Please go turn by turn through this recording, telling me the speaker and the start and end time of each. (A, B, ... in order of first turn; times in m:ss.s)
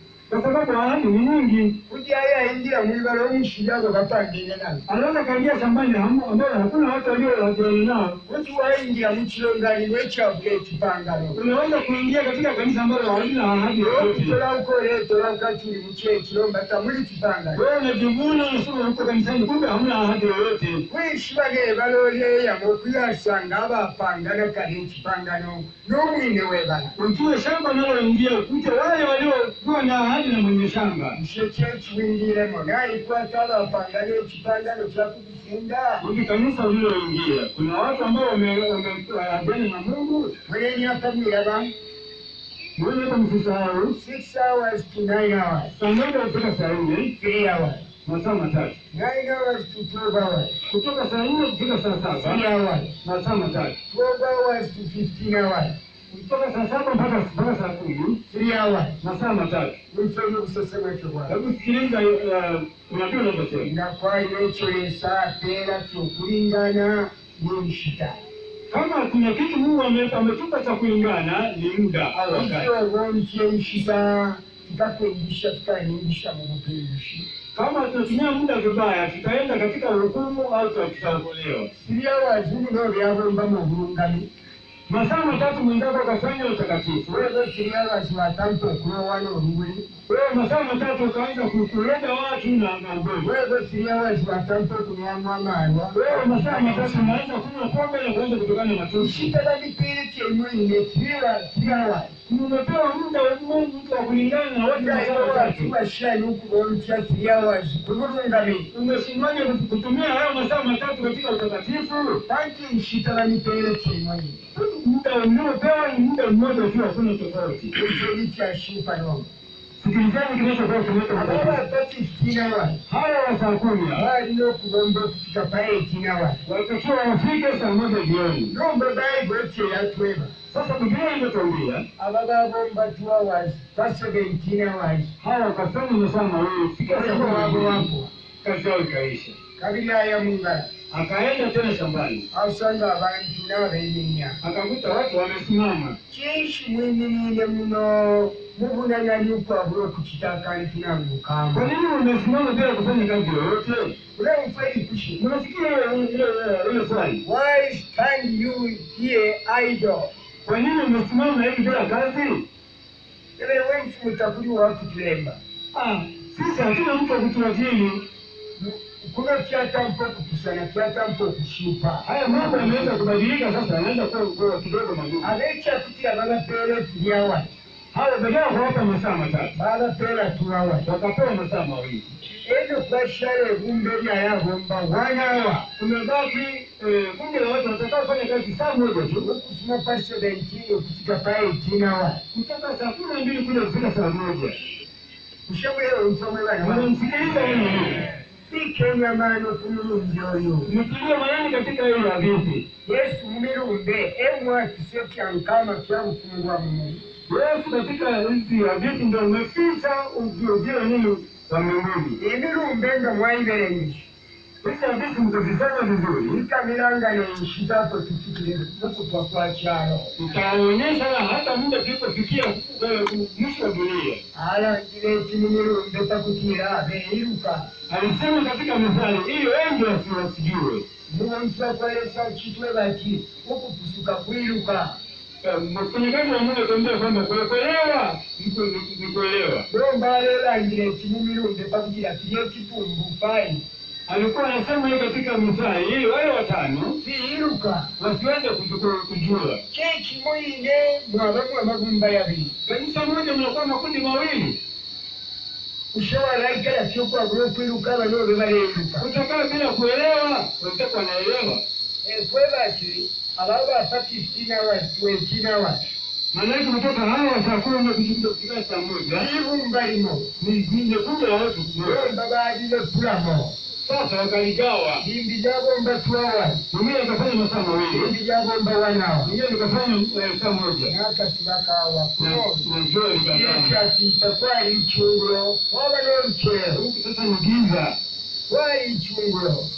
0:00.3-0:01.8 A
0:01.9-0:04.8 B
0:04.9-0:08.2 A
0:08.2-0:11.4 B
0:11.3-0:14.4 A
0:13.8-0:17.6 B
0:17.5-0:20.8 A
0:20.9-0:27.0 B
0:27.0-0:31.2 A
0:31.1-0:36.0 B
0:36.0-0:40.3 A
0:40.5-0:41.7 B
0:42.8-0:44.0 A
0:43.9-0:45.7 B
0:45.7-0:47.1 A
0:47.2-0:47.8 B
0:48.0-0:48.8 A
0:48.9-0:50.6 B
0:50.6-0:52.4 A
0:52.1-0:53.0 B
0:53.0-0:53.8 A
0:53.9-0:55.8 B
0:56.1-0:58.2 A
0:58.3-0:59.0 B
0:59.0-0:59.8 A
0:59.9-1:01.4 B
1:01.3-1:03.7 A
1:03.6-1:08.2 B
1:08.7-1:12.7 A
1:12.3-1:17.3 B
1:17.5-1:21.7 A
1:21.8-1:24.3 B
1:24.9-1:27.3 A
1:27.1-1:29.9 B
1:30.1-1:33.3 A
1:33.2-1:37.2 B
1:35.9-1:39.3 A
1:39.0-1:42.1 B
1:42.3-1:45.7 A
1:44.7-1:48.7 B
1:48.7-1:52.2 A
1:52.3-1:54.4 B
1:54.5-1:58.0 A
1:57.7-1:59.3 B
1:59.8-2:01.6 A
2:01.1-2:02.8 B
2:02.9-2:04.1 A
2:03.9-2:06.4 B
2:06.4-2:08.5 A
2:08.5-2:10.3 B
2:10.5-2:11.8 A
2:12.0-2:15.1 B
2:15.2-2:17.9 A
2:16.8-2:18.1 B
2:18.4-2:19.4 A
2:19.6-2:20.7 B
2:20.9-2:22.2 A
2:22.3-2:24.4 B
2:24.4-2:26.0 A
2:26.1-2:31.7 B
2:31.5-2:34.0 A
2:34.1-2:35.2 B
2:35.2-2:37.2 A
2:37.2-2:40.1 B
2:40.4-2:42.4 A
2:43.4-2:45.4 B
2:45.7-2:48.0 A
2:48.6-2:53.1 B
2:52.0-2:55.3 A
2:55.2-2:57.5 B
2:57.9-2:59.5 A
2:59.5-3:00.9 B
3:00.8-3:02.1 A
3:02.4-3:05.7 B
3:05.8-3:09.3 A
3:09.2-3:12.2 B
3:12.3-3:14.6 A
3:15.5-3:16.9 B
3:16.6-3:18.1 A
3:18.5-3:20.7 B
3:20.6-3:22.6 A
3:22.8-3:27.0 B
3:27.3-3:32.2 A
3:32.2-3:34.1 B
3:34.6-3:36.4 A
3:36.3-3:40.1 B
3:40.2-3:44.2 A
3:44.3-3:47.7 B
3:47.9-3:50.8 A
3:51.1-3:55.0 B
3:55.4-3:59.6 A
3:59.7-4:03.6 B
4:04.1-4:07.0 A
4:07.0-4:07.9 B
4:08.0-4:09.6 A
4:09.7-4:12.6 B
4:12.6-4:14.6 A
4:15.9-4:19.1 B
4:19.0-4:21.6 A
4:22.0-4:25.8 B
4:26.3-4:29.3 A
4:29.1-4:30.3 B
4:30.4-4:32.1 A
4:31.8-4:33.6 B
4:33.8-4:35.0 A
4:35.0-4:36.6 B
4:36.7-4:38.1 A
4:37.9-4:39.4 B
4:39.2-4:40.9 A
4:40.8-4:42.7 B
4:42.2-4:43.7 A
4:43.2-4:46.8 B
4:46.7-4:48.0 A
4:48.5-4:49.7 B